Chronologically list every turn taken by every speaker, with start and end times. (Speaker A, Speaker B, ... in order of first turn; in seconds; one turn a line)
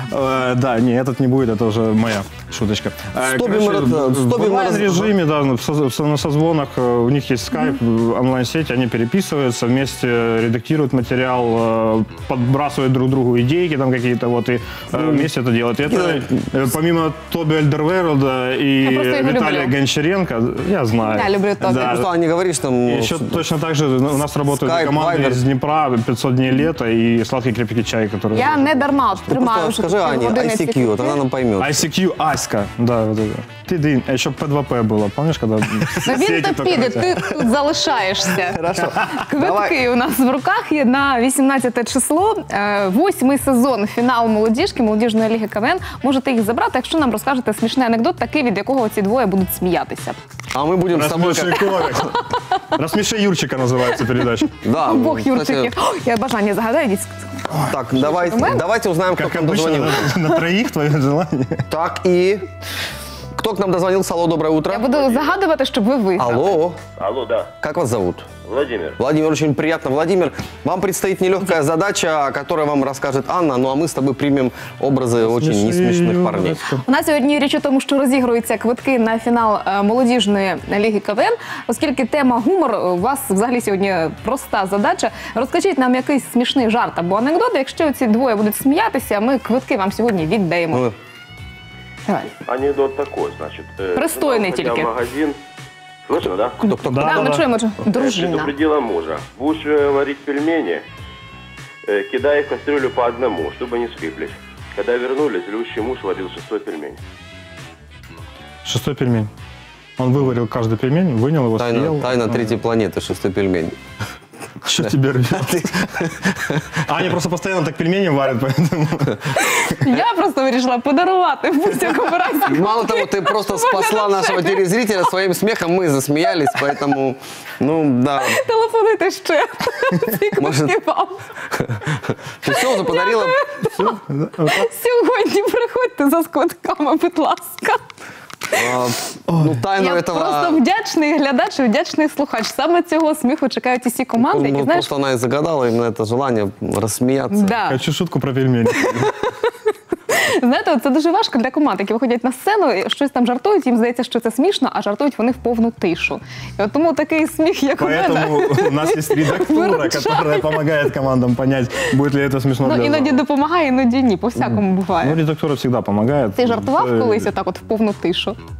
Speaker A: 0.1-22.1
Speaker B: 3.2-5.1
Speaker B: 14.9-15.2
Speaker B: 15.9-16.2
Speaker C: 18.8-19.7
Speaker C: 21.0-22.0
Speaker B: 21.7-23.4
Speaker A: 22.9-29.4
Speaker B: 24.5-25.4
Speaker C: 28.3-31.2
Speaker B: 29.3-31.8
Speaker A: 31.6-37.5
Speaker C: 36.0-50.2
Speaker B: 38.4-39.8
Speaker A: 38.7-39.1
Speaker B: 50.5-52.0
Speaker A: 50.9-54.5
Speaker C: 52.1-52.6
Speaker B: 54.6-55.7
Speaker C: 54.7-58.6
Speaker B: 57.7-60.1
Speaker A: 59.1-61.6
Speaker B: 61.7-62.5
Speaker B: 63.3-65.0
Speaker C: 64.7-66.6
Speaker D: 64.9-65.3
Speaker B: 66.2-66.8
Speaker D: 67.0-67.5
Speaker B: 67.6-68.3
Speaker D: 68.4-69.0
Speaker B: 69.0-76.7
Speaker A: 75.2-76.8
Speaker C: 76.8-90.8
Speaker C: 92.1-92.3
Speaker D: 92.4-95.4
Speaker C: 93.9-94.9
Speaker D: 96.1-96.6
Speaker B: 96.6-97.4
Speaker A: 96.8-97.4
Speaker C: 97.0-98.5
Speaker D: 97.9-100.8
Speaker D: 101.8-107.0
Speaker A: 108.6-109.3
Speaker A: 110.0-112.6
Speaker B: 111.6-113.7
Speaker A: 114.6-116.0
Speaker B: 115.3-116.7
Speaker A: 116.8-119.5
Speaker C: 119.3-124.9
Speaker B: 122.5-128.4
Speaker C: 128.2-131.2
Speaker B: 130.4-130.7
Speaker B: 131.5-133.4
Speaker C: 132.5-137.8
Speaker A: 133.8-134.7
Speaker B: 138.5-140.6
Speaker A: 139.3-139.6
Speaker C: 139.8-144.9
Speaker B: 144.2-147.5
Speaker C: 147.3-147.8
Speaker A: 147.7-149.1
Speaker C: 148.7-160.8
Speaker A: 157.8-163.2
Speaker C: 162.6-165.2
Speaker A: 164.4-167.3
Speaker C: 166.3-168.4